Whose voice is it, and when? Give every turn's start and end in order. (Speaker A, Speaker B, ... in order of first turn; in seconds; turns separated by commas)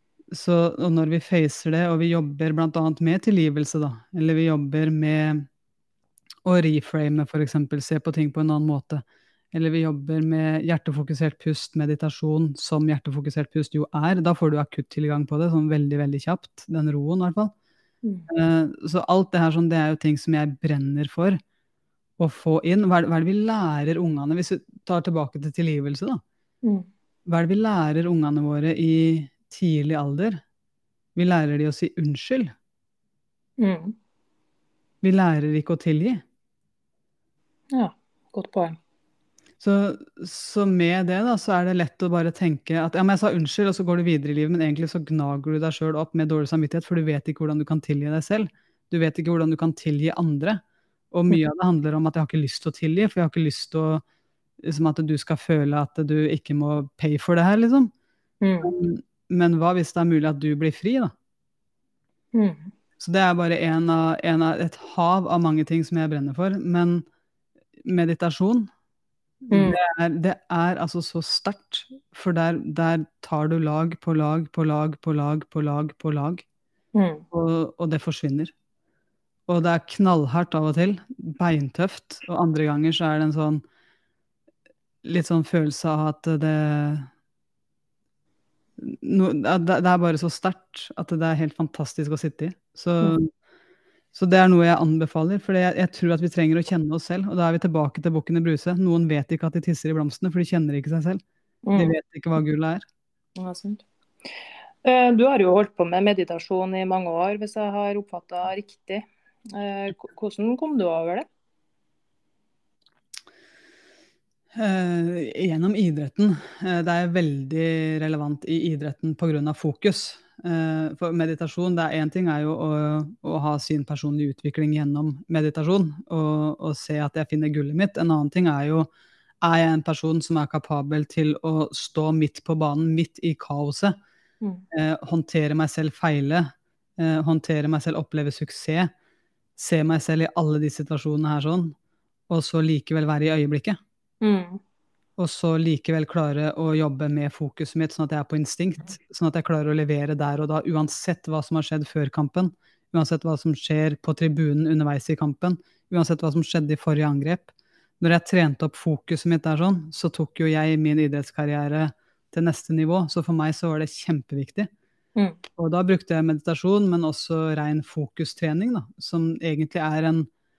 Speaker A: 0.3-5.5, Speaker A: 6.4-17.5, Speaker B: 18.0-18.3, Speaker A: 18.3-21.4, Speaker A: 22.2-26.2, Speaker A: 27.2-30.4, Speaker A: 31.1-32.5, Speaker B: 33.6-34.0, Speaker A: 35.0-36.2, Speaker B: 37.7-38.8, Speaker A: 39.6-50.6, Speaker A: 51.1-54.0, Speaker A: 54.6-57.9, Speaker B: 58.4-58.7, Speaker A: 58.6-61.1, Speaker B: 62.3-62.7, Speaker A: 63.0-67.0, Speaker A: 67.8-68.7, Speaker A: 69.5-76.4, Speaker B: 69.5-69.8, Speaker B: 76.9-77.2, Speaker A: 77.3-78.5, Speaker A: 79.5-83.6, Speaker A: 85.0-87.1, Speaker A: 88.8-93.3, Speaker A: 94.1-101.2, Speaker B: 101.7-102.0, Speaker A: 101.8-102.8, Speaker B: 103.4-103.8, Speaker B: 104.8-111.2, Speaker A: 114.5-128.9, Speaker A: 129.4-133.9, Speaker A: 134.7-136.4, Speaker A: 137.0-138.9, Speaker A: 139.6-141.7, Speaker A: 142.3-143.8, Speaker B: 144.2-144.6, Speaker A: 145.2-164.7, Speaker A: 165.6-170.3